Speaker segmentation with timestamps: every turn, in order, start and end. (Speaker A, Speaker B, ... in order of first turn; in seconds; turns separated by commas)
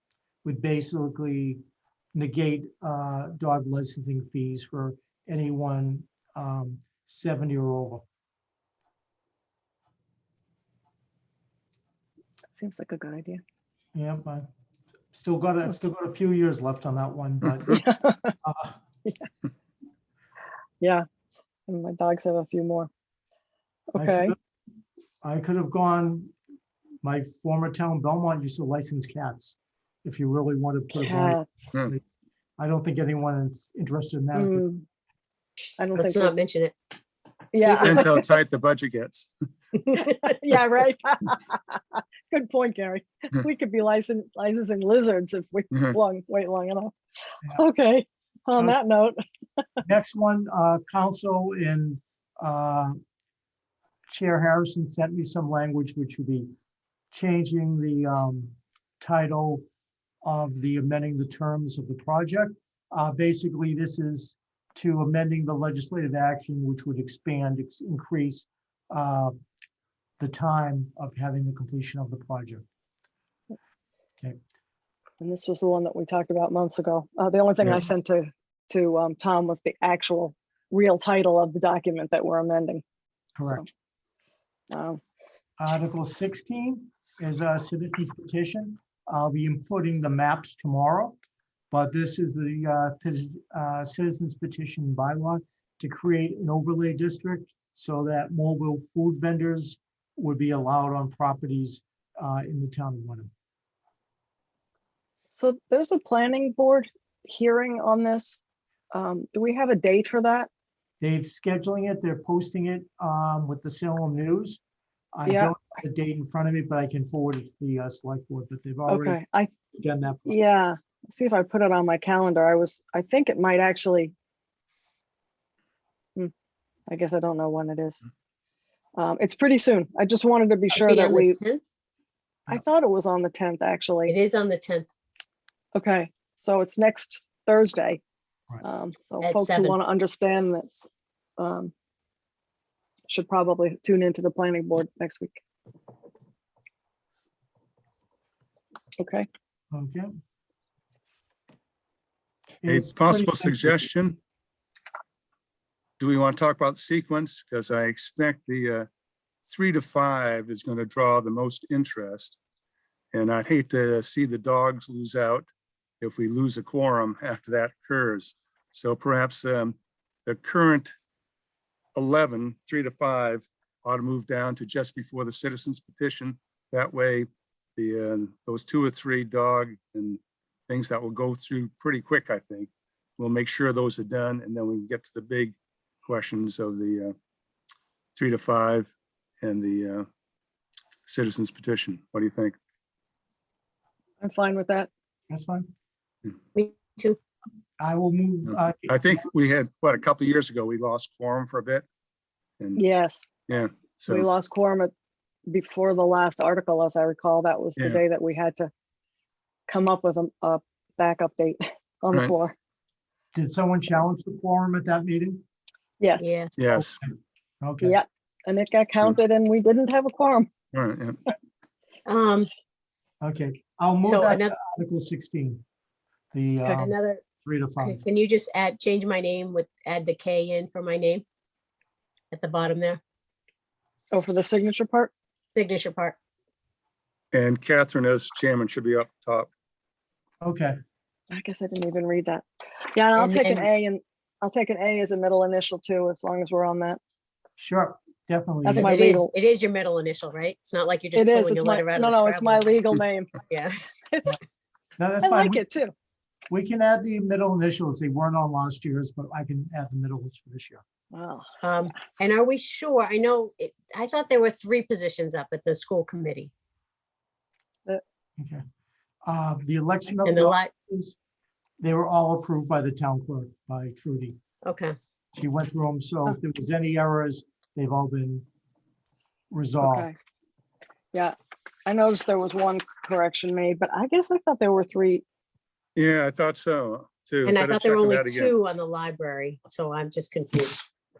Speaker A: 0.4-1.6, Speaker A: 2.1-8.0, Speaker B: 12.5-13.4, Speaker A: 13.9-14.5, Speaker A: 15.1-17.8, Speaker B: 17.7-18.4, Speaker A: 18.4-18.8, Speaker B: 20.8-21.1, Speaker B: 21.7-22.9, Speaker B: 23.9-24.3, Speaker A: 23.9-24.3, Speaker A: 25.2-26.3, Speaker A: 27.0-32.0, Speaker B: 30.9-31.4, Speaker A: 32.6-34.6, Speaker B: 34.3-34.8, Speaker B: 35.8-36.3, Speaker C: 36.0-36.8, Speaker B: 37.5-38.2, Speaker C: 37.6-38.2, Speaker D: 37.8-39.3, Speaker B: 40.0-49.6, Speaker A: 49.8-53.0, Speaker A: 54.1-56.5, Speaker A: 57.1-59.6, Speaker A: 60.2-69.4, Speaker A: 70.2-72.6, Speaker B: 75.2-82.8, Speaker A: 83.3-83.6, Speaker B: 84.7-85.0, Speaker A: 85.6-91.2, Speaker A: 91.7-103.3, Speaker B: 105.3-108.4, Speaker B: 108.9-110.5, Speaker A: 111.0-114.6, Speaker A: 115.1-119.2, Speaker B: 115.2-115.6, Speaker B: 118.9-119.5, Speaker A: 119.7-120.4, Speaker B: 120.2-124.1, Speaker B: 126.9-128.0, Speaker B: 128.9-131.4, Speaker C: 130.7-131.6, Speaker B: 132.5-134.1, Speaker C: 134.1-134.9, Speaker B: 135.7-138.0, Speaker B: 138.6-140.9, Speaker C: 139.2-139.8, Speaker B: 141.4-141.7, Speaker B: 143.1-145.4, Speaker B: 149.0-149.3, Speaker A: 149.7-150.1, Speaker A: 152.6-153.9, Speaker D: 152.7-154.2, Speaker D: 156.0-158.9, Speaker D: 159.4-162.4, Speaker D: 163.1-165.5, Speaker D: 166.0-170.9, Speaker D: 171.9-185.5, Speaker D: 186.1-187.1, Speaker D: 188.2-190.1, Speaker D: 191.1-192.6, Speaker B: 194.2-194.9, Speaker A: 195.3-195.7, Speaker C: 196.5-197.2, Speaker A: 197.8-199.2, Speaker D: 198.8-201.8, Speaker B: 202.8-203.2, Speaker D: 203.5-204.3, Speaker B: 204.1-204.9, Speaker B: 205.5-208.7, Speaker B: 209.7-212.5, Speaker A: 213.3-215.4, Speaker B: 216.0-216.3, Speaker C: 216.2-216.6, Speaker D: 216.6-217.0, Speaker A: 217.6-218.0, Speaker B: 217.8-220.5, Speaker D: 220.7-221.2, Speaker C: 222.1-222.5, Speaker A: 223.2-225.6, Speaker C: 224.0-224.6, Speaker A: 226.3-228.0, Speaker C: 226.6-227.2, Speaker C: 227.8-231.2, Speaker C: 232.3-233.0, Speaker B: 234.1-235.1, Speaker C: 235.5-236.2, Speaker D: 237.3-239.5, Speaker A: 240.4-240.8, Speaker B: 241.3-247.0, Speaker C: 243.2-243.7, Speaker A: 247.6-248.9, Speaker B: 248.6-249.3, Speaker C: 248.7-252.8, Speaker B: 251.2-253.4, Speaker C: 253.5-253.8, Speaker B: 254.1-254.4, Speaker A: 255.0-255.6, Speaker B: 255.2-255.9, Speaker A: 256.5-260.8, Speaker B: 261.1-261.9, Speaker C: 261.6-266.5, Speaker A: 268.4-268.6, Speaker A: 269.2-271.2, Speaker C: 270.2-270.7, Speaker A: 271.8-274.4, Speaker C: 274.6-275.0, Speaker A: 275.3-278.4, Speaker A: 279.5-280.1, Speaker B: 279.8-280.1, Speaker B: 281.1-285.2, Speaker D: 285.9-288.5, Speaker C: 287.4-290.9